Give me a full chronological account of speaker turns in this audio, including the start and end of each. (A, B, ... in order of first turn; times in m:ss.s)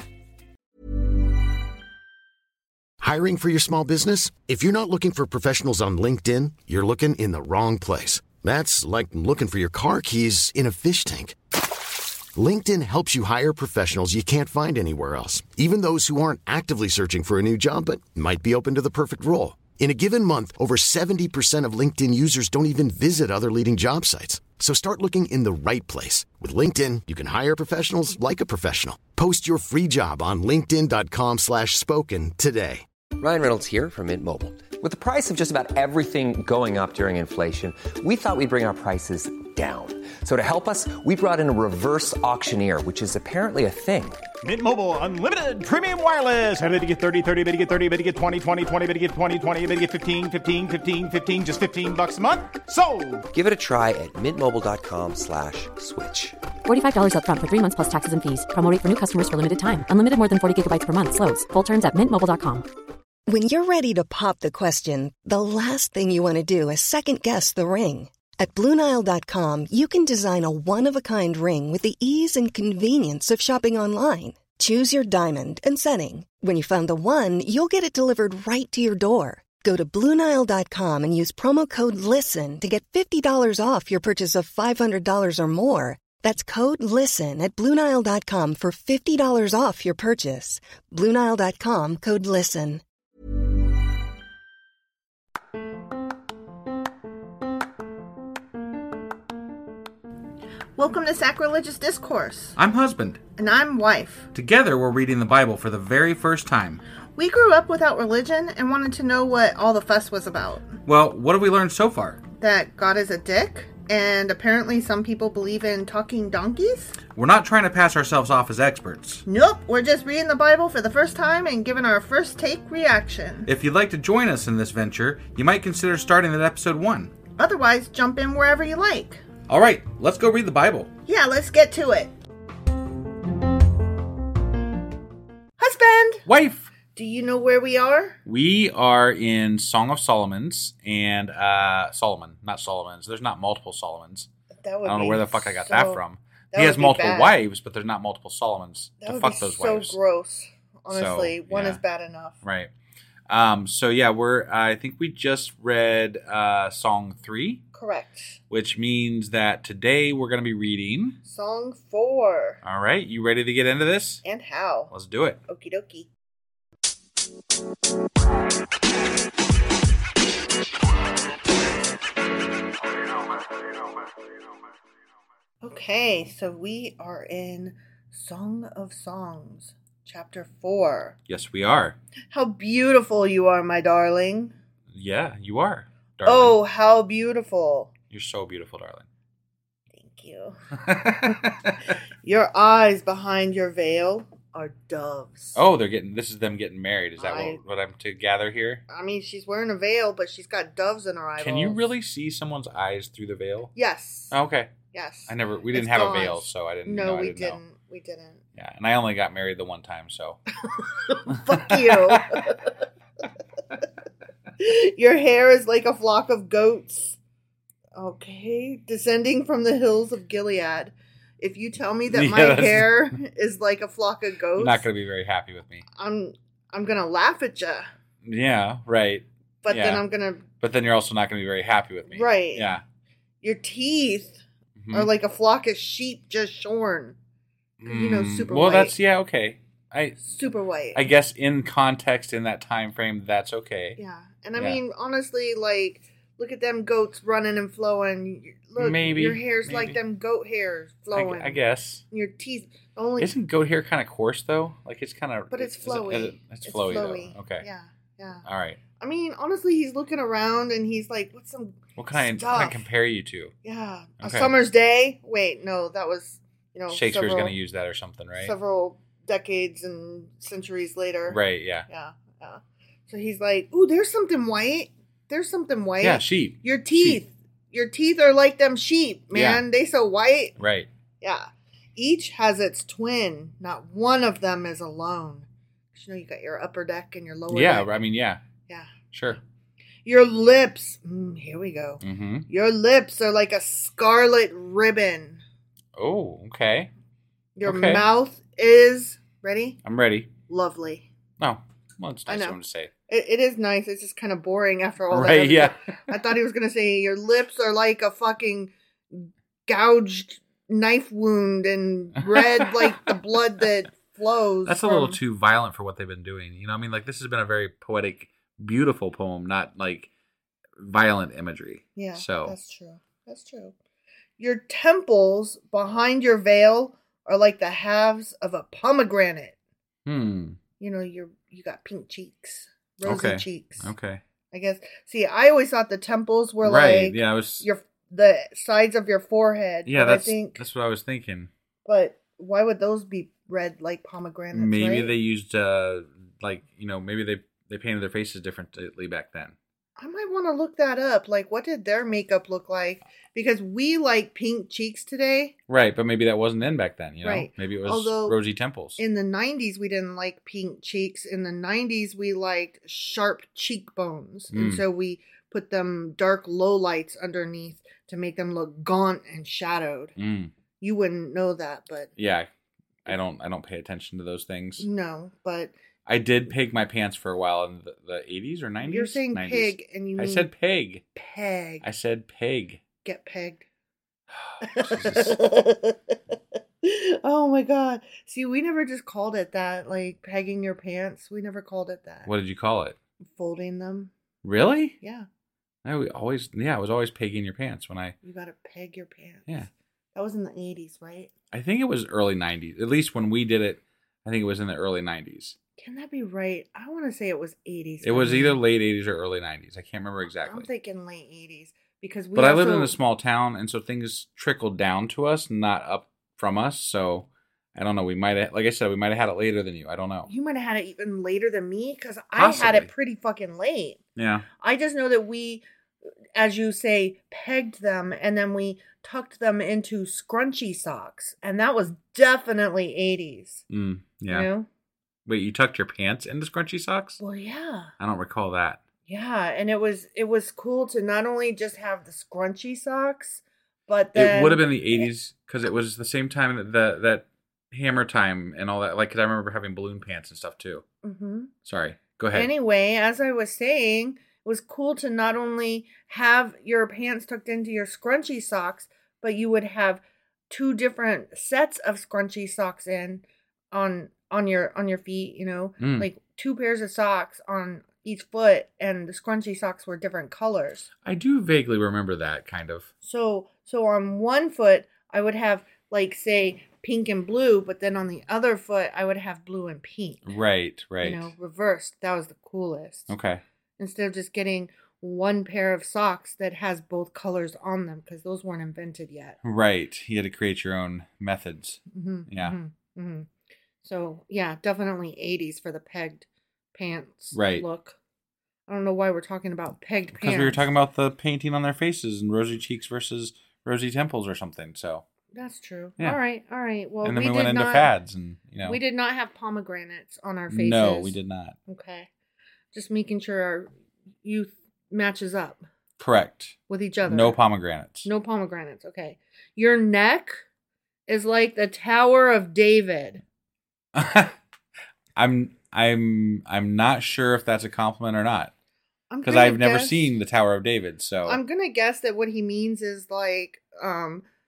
0:03.0-0:11.4 A
0:12.3-0:32.8 A
0:33.2-0:44.2 B
0:44.4-0:53.2 C
0:53.3-0:56.4 B
0:56.6-1:02.6 D
1:03.3-1:32.8 E
1:40.8-1:42.6 F
1:42.6-1:43.2 G
1:43.4-1:44.3 F
1:44.3-1:46.8 G
1:47.2-1:50.8 F
1:50.8-1:52.2 G
1:52.4-1:57.0 F
1:57.2-1:59.2 G
1:59.2-2:03.5 F
2:03.5-2:07.1 G
2:07.3-2:09.2 F
2:09.5-2:10.9 G
2:11.1-2:12.1 F
2:15.6-2:16.2 F
2:16.2-2:16.7 G
2:16.9-2:18.2 F
2:18.2-2:24.3 G
2:24.6-2:26.0 F
2:24.8-2:30.0 G
2:26.5-2:27.4 F
2:29.0-2:32.3 F
2:30.9-2:31.8 G
2:32.4-2:32.7 G
2:33.3-2:37.6 G
2:37.7-2:38.4 F
2:38.5-2:41.2 G
2:41.2-2:42.6 F
2:42.6-2:44.2 G
2:44.2-2:44.9 F
2:44.9-2:45.4 G
2:45.5-2:46.1 F
2:55.6-3:01.2 F
3:01.3-3:02.0 G
3:02.3-3:04.5 F
3:04.9-3:06.6 G
3:06.2-3:07.9 F
3:08.1-3:09.0 G
3:09.9-3:15.6 F
3:10.8-3:11.7 G
3:15.5-3:18.8 G
3:17.2-3:17.6 F
3:18.9-3:21.8 F
3:21.4-3:23.7 G
3:23.7-3:24.4 F
3:24.3-3:24.8 G
3:24.9-3:28.4 F
3:25.3-3:27.6 G
3:28.6-3:30.4 G
3:30.7-3:32.7 F
3:31.3-3:32.5 G
3:34.6-3:37.2 F
3:38.0-3:44.9 F
3:42.1-3:43.1 G
3:44.6-3:45.8 G
3:46.0-3:47.9 F
3:48.2-3:50.0 G
3:49.6-3:50.4 F
3:50.6-3:52.8 G
3:52.1-3:52.7 F
3:53.4-3:57.2 F
3:54.8-3:55.1 G
3:57.8-4:00.2 G
3:57.9-3:59.0 F
4:00.2-4:01.0 F
4:00.9-4:04.0 G
4:04.0-4:11.6 F
4:08.8-4:10.0 G
4:11.1-4:12.0 G
4:12.1-4:13.3 F
4:13.2-4:17.6 G
4:15.5-4:18.4 F
4:18.4-4:18.8 G
4:19.0-4:22.8 F
4:22.0-4:23.5 G
4:23.6-4:27.5 F
4:24.2-4:24.5 G
4:26.9-4:28.5 G
4:28.4-4:40.6 F
4:31.3-4:31.9 G
4:36.0-4:37.2 G
4:39.3-4:39.6 G
4:40.6-4:40.9 G
4:41.2-4:47.9 F
4:47.5-4:48.4 G
4:49.1-4:49.4 G
4:50.0-4:55.4 F
4:52.0-4:52.5 G
4:56.0-4:56.9 G
4:57.6-4:59.8 F
4:57.6-4:58.0 G
4:59.8-5:00.3 G
5:00.5-5:01.1 F
5:01.4-5:02.9 G
5:02.3-5:02.6 F
5:03.1-5:15.2 F
5:05.1-5:06.1 G
5:12.2-5:13.1 G
5:14.6-5:20.1 G
5:20.8-5:22.5 G
5:22.0-5:23.7 F
5:24.4-5:29.5 F
5:30.0-5:30.6 G
5:30.8-5:33.9 F
5:33.0-5:34.2 G
5:34.5-5:40.6 F
5:36.6-5:37.6 G
5:39.8-5:41.5 G
5:41.8-5:45.1 F
5:44.5-5:49.5 G
5:50.0-5:55.5 F
5:55.7-5:59.0 G
5:57.2-5:58.4 F
5:59.0-6:10.1 F
6:04.5-6:04.8 G
6:10.2-6:10.5 G
6:10.8-6:12.1 F
6:12.2-6:12.5 G
6:13.0-6:14.9 G
6:14.8-6:15.7 F
6:16.0-6:21.0 G
6:18.8-6:20.5 F
6:21.1-6:21.8 F
6:21.8-6:22.8 G
6:23.0-6:23.6 F
6:24.4-6:25.4 G
6:24.6-6:26.2 F
6:26.8-6:32.3 F
6:32.2-6:33.0 G
6:33.4-6:34.1 F
6:34.4-6:35.0 G
6:35.0-6:35.3 F
6:35.8-6:38.2 G
6:38.2-6:39.6 F
6:40.1-6:41.3 F
6:41.5-6:45.6 G
6:45.8-6:48.6 F
6:48.0-6:50.7 G
6:50.4-6:52.9 F
6:52.3-7:00.3 G
7:00.2-7:04.0 F
7:02.4-7:02.9 G
7:04.2-7:04.4 G
7:04.6-7:05.6 F
7:06.4-7:13.6 F
7:13.7-7:14.5 G
7:14.3-7:14.7 F
7:15.2-7:17.2 G
7:17.2-7:17.9 F
7:18.0-7:18.8 G
7:19.1-7:25.1 F
7:24.1-7:30.8 G
7:31.0-7:31.5 F
7:31.6-7:32.5 G
7:32.3-7:50.9 F
7:45.8-7:46.1 G
7:51.0-7:52.9 G
7:53.0-8:00.3 F
8:00.2-8:01.3 G
8:01.0-8:03.1 F
8:03.1-8:03.4 G
8:03.8-8:09.4 F
8:09.4-8:12.6 G
8:11.9-8:13.3 F
8:13.8-8:18.0 F
8:17.3-8:17.6 G
8:18.7-8:20.6 F
8:20.1-8:25.0 G
8:25.3-8:27.9 F
8:27.0-8:28.8 G
8:28.6-8:31.2 F
8:30.5-8:31.6 G
8:31.7-8:32.1 F
8:32.7-8:33.7 F
8:34.2-8:35.6 F
8:36.0-8:38.1 G
8:36.7-8:37.4 F
8:38.0-8:40.4 F
8:41.1-8:43.2 F
8:43.9-8:44.3 G
8:45.2-8:48.5 G
8:49.1-8:50.1 F
8:49.2-8:51.4 G
8:51.2-8:54.2 F